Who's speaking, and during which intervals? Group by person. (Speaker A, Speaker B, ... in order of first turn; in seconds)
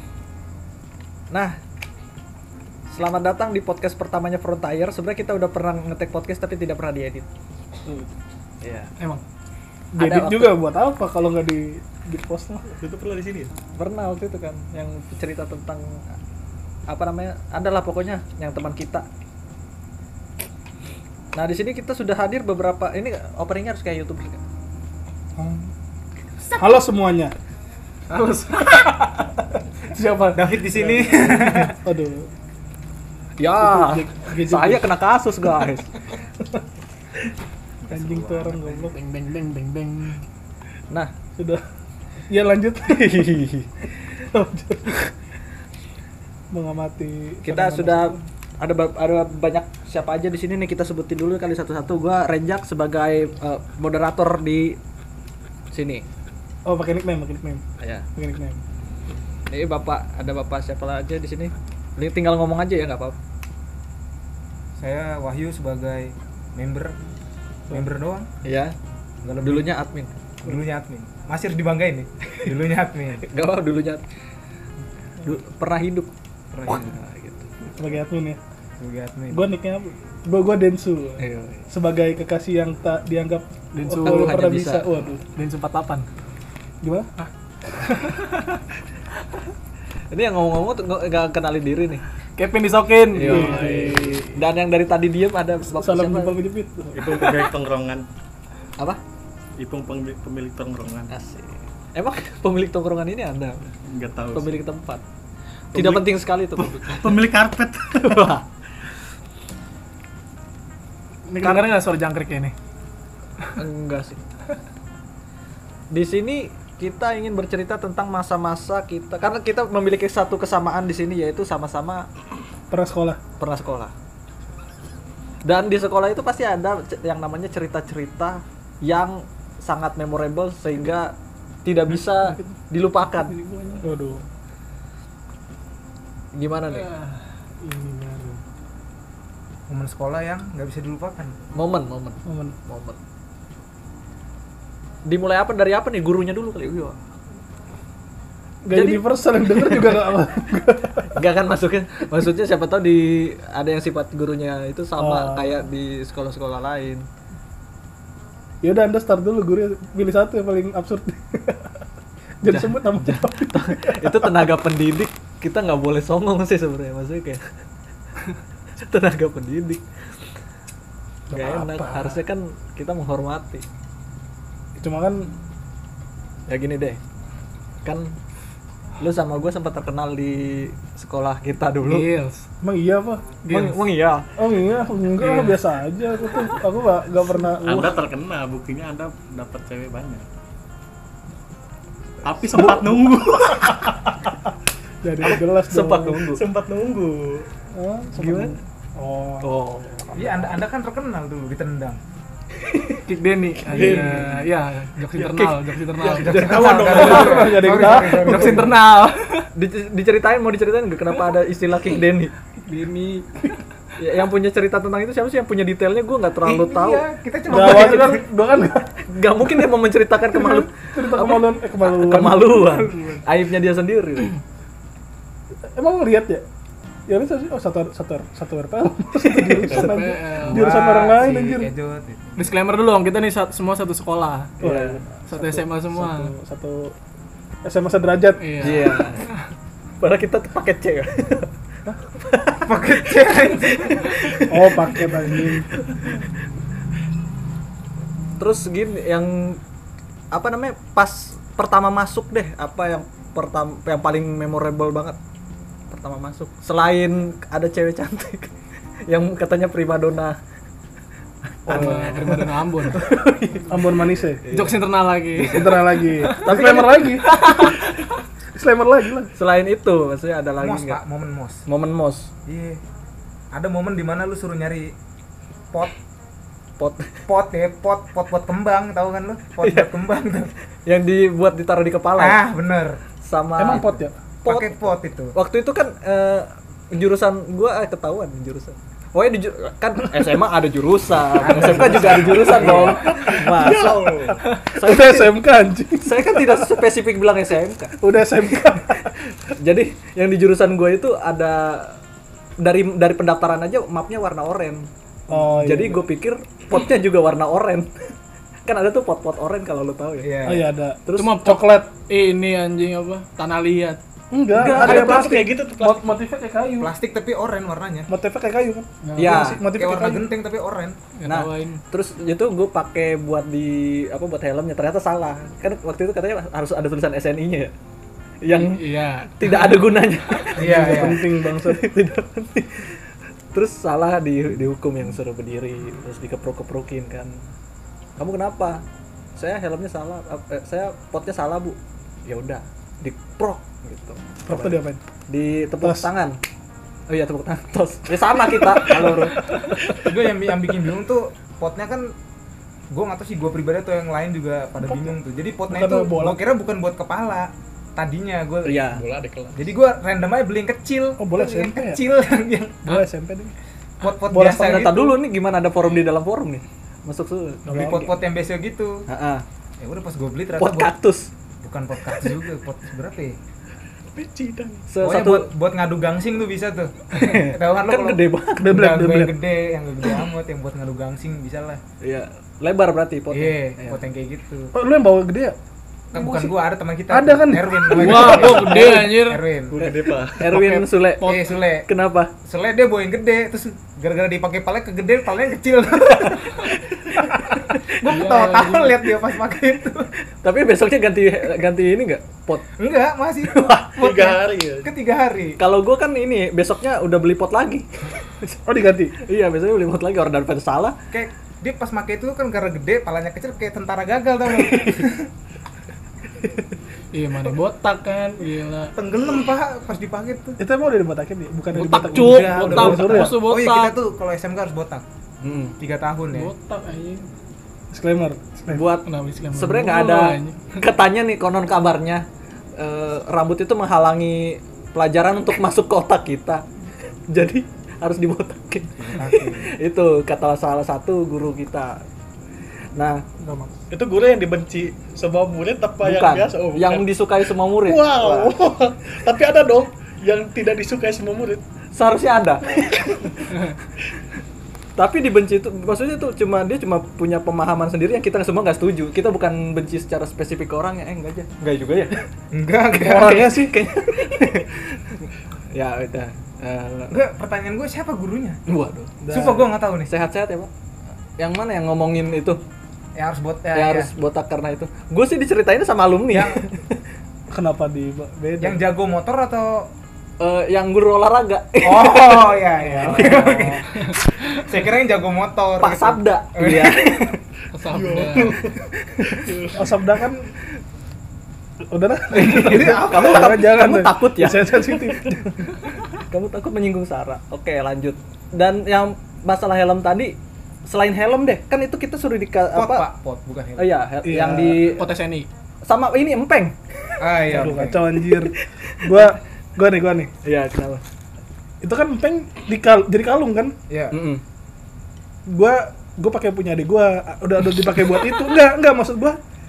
Speaker A: 1.3-1.6, 2.9-7.3, 8.6-8.9, 10.0-10.6, 13.8-16.1, 16.9-19.1, 21.3-24.4, 33.4-35.9, 43.0-43.7, 47.4-54.8, 55.7-56.1, 57.8-58.1, 59.5-63.2, 68.4-68.8, 69.4-70.1, 73.2-74.0, 75.2-76.1, 76.7-77.5, 81.2-81.7, 84.0-84.9, 90.1-92.0, 93.1-96.4, 101.1-103.7, 104.3-105.0, 105.7-107.1, 108.0-108.5, 111.4-111.7, 113.6-114.2, 115.9-122.1, 123.4-123.9, 125.5-133.3, 136.3-136.9, 141.5-143.0, 145.1-147.0, 148.7-149.9, 151.1-157.1, 162.4-167.4, 168.8-169.8, 171.3-173.7, 176.5-177.0, 177.8-178.1, 179.0-182.1, 183.5-184.3, 195.2-196.4, 198.2-198.6, 199.4-200.5, 202.7-203.0, 203.7-204.3, 205.2-207.4, 209.6-212.3, 214.0-217.0, 217.6-218.0, 219.1-224.4, 234.6-235.0, 238.6-239.3, 240.0-241.5, 242.1-246.2, 248.4-249.6, 250.3-255.2, 255.9-258.5, 259.1-260.4, 261.6-263.7, 264.4-264.8, 266.4-267.7, 269.4-271.0, 271.7-272.3, 276.8-277.2, 279.6-280.1, 280.9-282.4, 283.2-294.1, 294.7-295.4, 296.0-298.0, 298.6-302.0, 302.6-307.9, 308.7-310.4, 311.1-311.5, 314.5-315.3, 319.2-319.6, 321.2-327.7, 328.4-333.0, 333.5-337.4, 338.2-338.8, 339.4-346.4, 347.1-349.4, 358.6-359.0, 364.3-368.1, 369.1-369.4, 370.6-371.3, 374.9-375.5, 377.1-378.7, 382.0-384.0, 389.8-392.3, 400.4-402.7, 403.5-403.9, 405.6-408.6, 409.2-411.0, 425.4-425.8, 428.7-432.3, 432.8-436.6, 437.3-442.0, 442.9-443.3, 446.0-448.5, 451.9-453.6, 455.0-462.3, 463.1-465.2, 465.7-467.2, 468.7-469.1, 470.1-470.7, 471.4-472.6, 473.7-477.0, 480.4-483.8, 485.8-487.4, 488.5-489.4, 492.3-495.3, 496.3-503.1, 503.8-505.1, 505.9-507.2, 508.2-509.4, 510.4-511.0, 514.1-514.4
Speaker B: 9.9-12.7, 25.4-25.7, 26.6-27.4, 28.6-29.1, 29.9-32.3, 33.6-34.9, 37.9-39.0, 41.4-41.6, 42.3-43.4, 44.2-45.1, 46.5-48.2, 56.6-57.6, 58.2-58.6, 77.7-78.4, 79.3-85.2, 86.8-87.1, 93.1-93.9, 95.7-97.3, 122.7-123.2, 133.8-134.2, 142.2-142.6, 148.7-151.2, 155.0-155.6, 158.6-161.8, 162.4-164.5, 171.3-172.2, 174.8-175.3, 182.6-183.2, 184.4-188.0, 192.6-192.9, 195.0-196.2, 197.8-199.5, 206.9-208.7, 217.5-218.9, 220.5-222.6, 225.7-226.4, 227.1-231.7, 234.6-236.9, 237.6-238.4, 244.5-245.7, 261.7-262.4, 263.7-264.4, 265.4-267.3, 268.6-269.3, 283.6-284.2, 291.5-293.3, 294.8-296.8, 298.0-299.1, 305.3-306.1, 310.4-311.9, 314.3-316.9, 318.1-320.4, 330.6-331.9, 344.5-345.0, 345.8-346.1, 348.8-349.7, 354.8-355.1, 355.7-356.4, 361.2-362.0, 362.9-363.6, 364.3-364.9, 367.7-368.1, 378.6-379.4, 384.7-385.6, 386.1-388.7, 408.6-409.2, 420.6-423.4, 427.9-428.9, 443.4-443.7, 463.0-463.8, 469.2-469.7, 477.5-478.9, 482.8-483.4, 489.8-490.5, 491.9-495.6, 504.2-504.9, 507.5-510.3, 511.8-513.8, 515.5-519.4
Speaker C: 12.7-13.5, 96.9-98.1, 99.6-101.1, 103.8-104.6, 106.6-108.3, 187.6-190.2, 192.2-194.2, 196.3-197.5, 203.8-204.2, 206.3-207.6, 292.7-294.4, 314.7-316.2, 358.9-359.7, 374.1-374.9, 389.7-390.4, 404.0-404.9, 443.9-447.2, 447.7-451.6, 487.9-488.8, 489.3-489.9
Speaker D: 28.1-29.0, 38.8-40.2, 83.7-84.7, 85.2-86.1, 87.9-88.4, 92.4-94.4, 111.3-112.5, 133.1-133.9, 136.7-138.4, 181.8-182.5, 183.4-183.8, 185.2-185.6, 203.1-209.5, 212.7-213.3, 229.6-230.7, 232.4-234.6, 235.3-236.3, 238.4-239.0, 261.7-263.0, 264.5-266.5, 267.3-267.8, 311.1-314.0, 319.0-319.4, 321.2-321.8, 328.5-330.5, 387.9-389.5, 390.4-391.5, 398.1-399.1, 417.1-418.9, 421.7-424.0, 426.3-427.3, 429.1-430.8, 483.9-484.2, 487.7-488.6, 504.8-505.5
Speaker E: 30.3-31.8, 37.8-38.8, 64.8-67.0, 67.7-68.3, 69.2-69.7, 70.4-73.2, 76.5-76.9, 78.8-79.5, 139.7-141.3, 200.2-202.0, 206.0-208.8, 216.4-218.2, 222.5-223.2, 230.5-232.5, 242.7-244.2, 270.6-271.6, 272.5-272.8, 273.5-274.9, 277.3-280.5, 282.2-283.0, 284.5-285.3, 291.4-292.9, 310.2-310.7, 316.8-318.1, 319.4-321.0, 330.6-331.3, 349.9-352.1, 352.9-358.9, 359.6-362.9, 364.0-365.2, 367.7-369.1, 369.8-370.9, 371.6-373.4, 375.0-381.8, 383.3-384.7, 386.1-389.8, 391.2-391.9, 392.4-400.1, 402.8-405.6, 411.1-415.3, 418.9-420.6, 421.9-425.0, 425.8-426.5, 439.0-439.7, 462.5-463.5, 467.1-468.6, 469.3-470.1, 473.2-474.1, 476.3-476.7, 478.6-479.9, 481.8-483.9, 484.5-487.4, 492.3-493.6, 502.7-504.0, 507.2-508.0, 513.9-514.2